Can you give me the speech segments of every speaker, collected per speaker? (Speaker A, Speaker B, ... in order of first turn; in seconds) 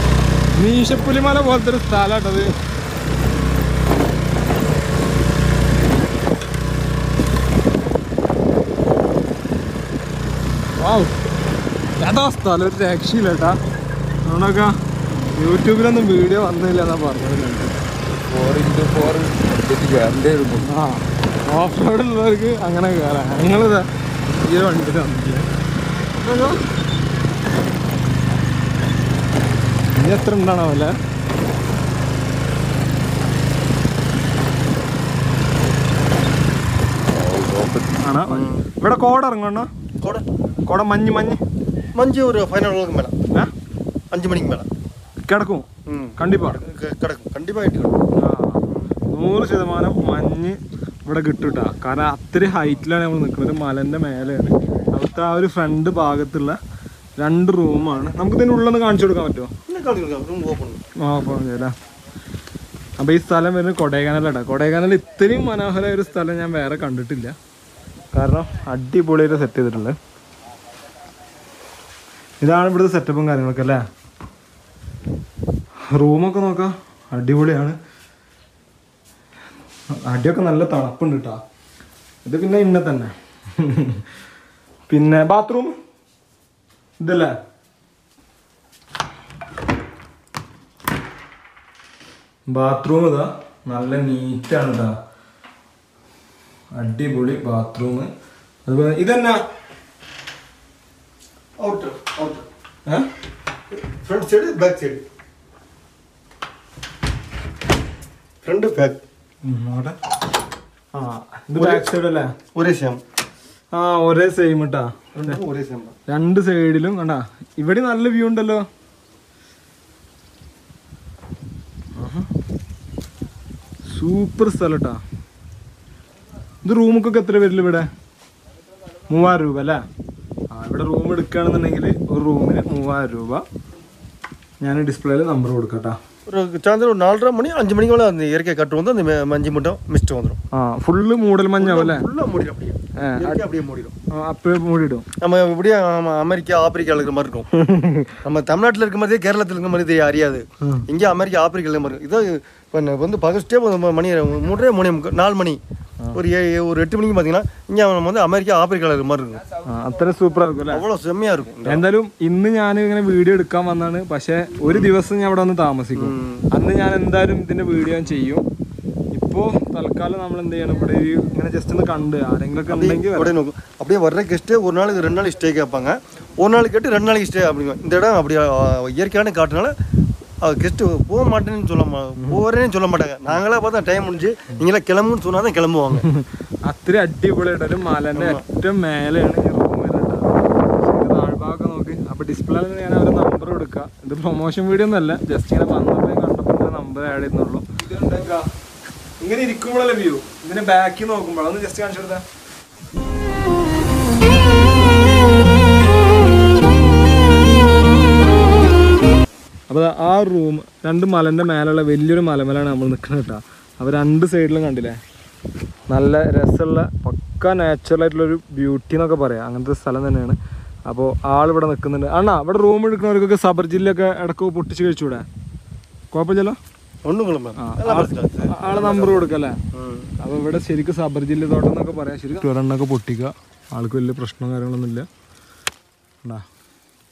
Speaker A: 0.5-2.5, 10.8-11.1, 12.0-13.6, 14.2-14.7, 15.3-17.8, 20.6-25.5, 26.2-26.6, 29.9-30.9, 38.0-39.7, 40.6-41.4, 45.3-46.6, 48.1-56.6, 57.2-59.5, 61.0-61.7, 63.0-67.3, 68.1-70.0, 72.4-73.8, 75.9-77.8, 79.9-81.4, 82.2-84.0, 84.9-85.7, 87.0-87.3, 92.5-95.0, 96.7-98.1, 98.6-99.4, 109.4-110.0, 110.9-112.3, 113.7-115.4, 116.1-118.6, 122.0-122.3, 123.9-125.0, 126.6-127.9, 129.1-129.8, 130.5-133.4, 134.6-136.0, 140.5-142.0, 143.0-143.4, 144.1-145.1, 147.6-148.1, 159.6-160.8, 161.7-168.4, 169.1-173.3, 185.9-198.5, 199.2-202.2, 209.7-215.0, 215.9-225.2, 226.1-226.6, 227.6-229.6, 230.2-235.1
Speaker B: 18.3-20.7, 37.1-38.0
Speaker C: 38.3-38.6, 41.9-43.1, 44.1-44.7, 45.9-48.0, 59.7-60.8, 101.6-102.5, 103.7-105.0, 108.4-109.0, 111.5-111.9, 112.5-113.0, 115.1-116.0, 136.3-140.4, 141.6-143.9, 145.2-147.5, 148.2-155.6, 156.1-159.4, 160.7-161.8, 164.7-164.9, 165.9-166.5, 172.7-179.7, 180.4-186.0, 188.1-188.4, 227.0-230.1